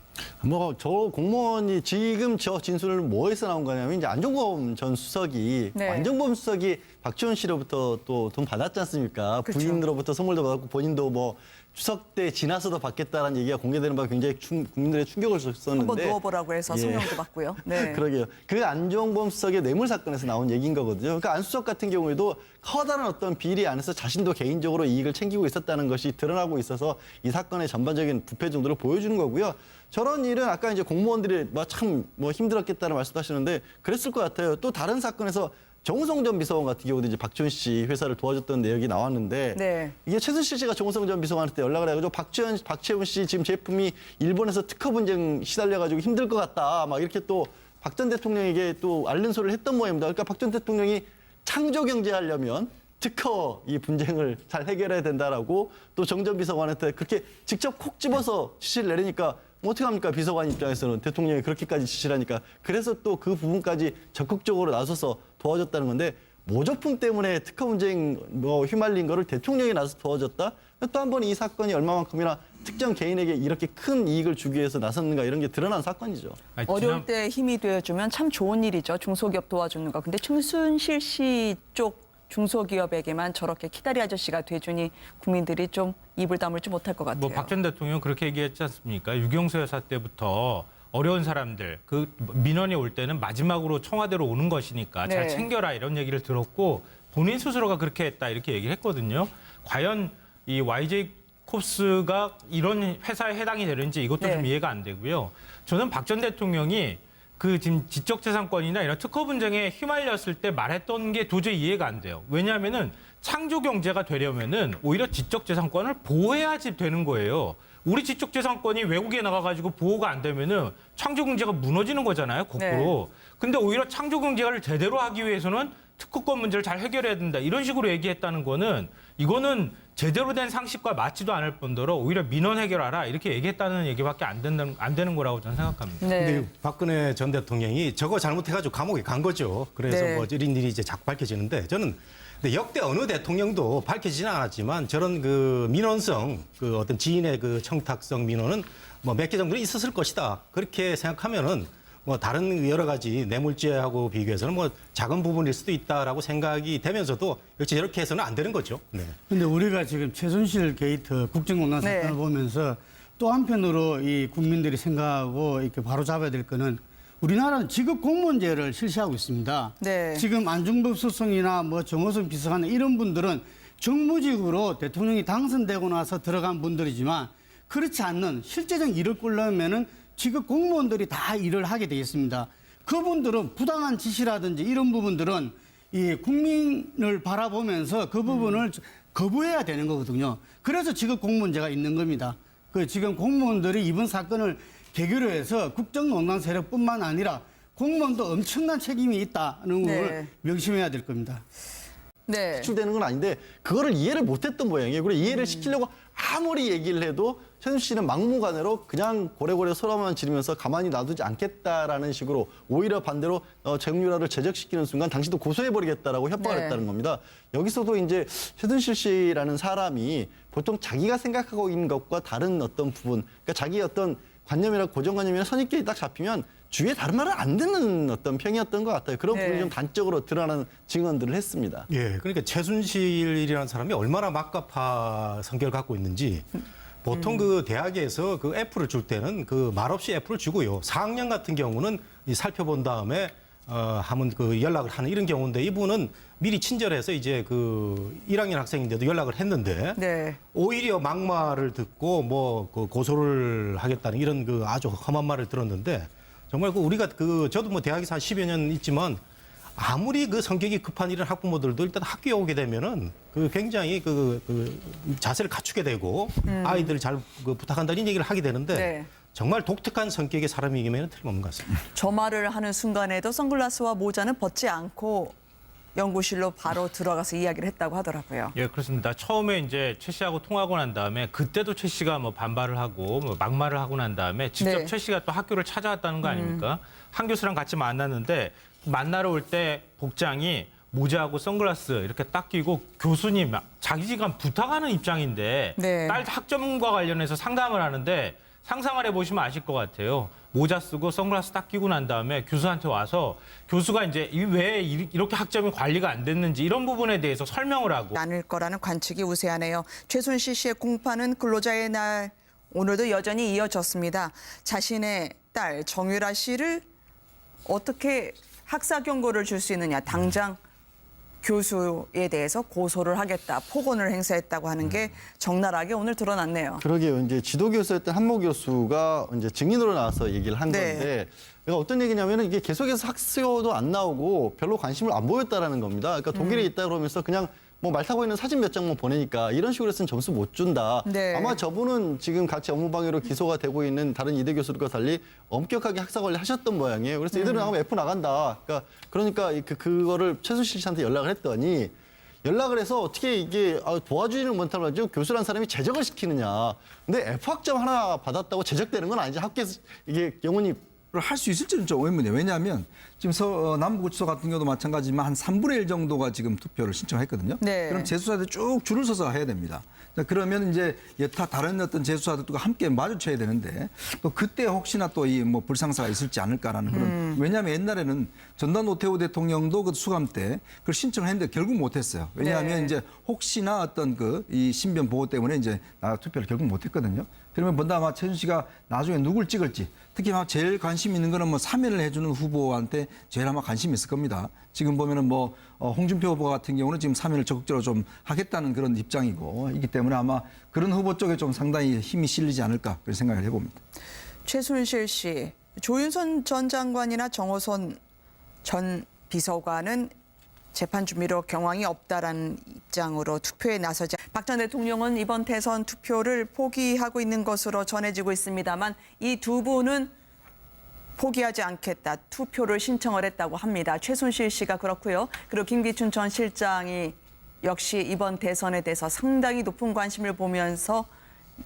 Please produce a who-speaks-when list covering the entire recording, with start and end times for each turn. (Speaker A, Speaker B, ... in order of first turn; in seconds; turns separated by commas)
Speaker A: 0.4-76.4, Speaker B: 5.7-6.1, Speaker B: 9.4-9.8, Speaker B: 15.8-18.0, Speaker B: 39.5-39.9, Speaker C: 76.6-77.0, Speaker B: 76.7-87.5, Speaker C: 87.1-136.1, Speaker B: 95.0-95.5, Speaker B: 104.2-104.5, Speaker B: 122.6-123.0, Speaker B: 136.0-136.5, Speaker D: 136.2-159.2, Speaker B: 139.9-140.3, Speaker E: 159.3-201.4, Speaker B: 161.8-162.2, Speaker B: 169.8-170.3, Speaker B: 188.3-188.6, Speaker B: 199.8-200.3, Speaker B: 202.3-202.7, Speaker A: 202.6-231.9, Speaker B: 205.2-205.7, Speaker B: 216.4-216.8, Speaker B: 229.3-229.7, Speaker D: 231.9-236.5, Speaker D: 237.0-250.0, Speaker B: 237.1-237.5, Speaker B: 249.9-250.4, Speaker D: 250.5-259.2, Speaker D: 259.8-271.8, Speaker B: 266.4-266.9, Speaker B: 268.7-269.1, Speaker B: 271.9-275.3, Speaker B: 275.9-278.5, Speaker C: 278.5-308.2, Speaker B: 284.6-284.9, Speaker B: 286.2-286.6, Speaker B: 295.8-296.2, Speaker B: 308.1-316.8, Speaker B: 317.6-320.6, Speaker B: 321.4-326.8, Speaker A: 326.8-360.8, Speaker B: 330.7-331.1, Speaker B: 336.3-336.7, Speaker B: 341.0-341.6, Speaker B: 347.3-347.7, Speaker F: 361.1-403.8, Speaker B: 367.6-368.1, Speaker B: 376.9-377.4, Speaker B: 382.4-382.9, Speaker B: 404.4-408.0, Speaker B: 408.6-410.1, Speaker B: 410.7-420.1, Speaker B: 421.2-431.1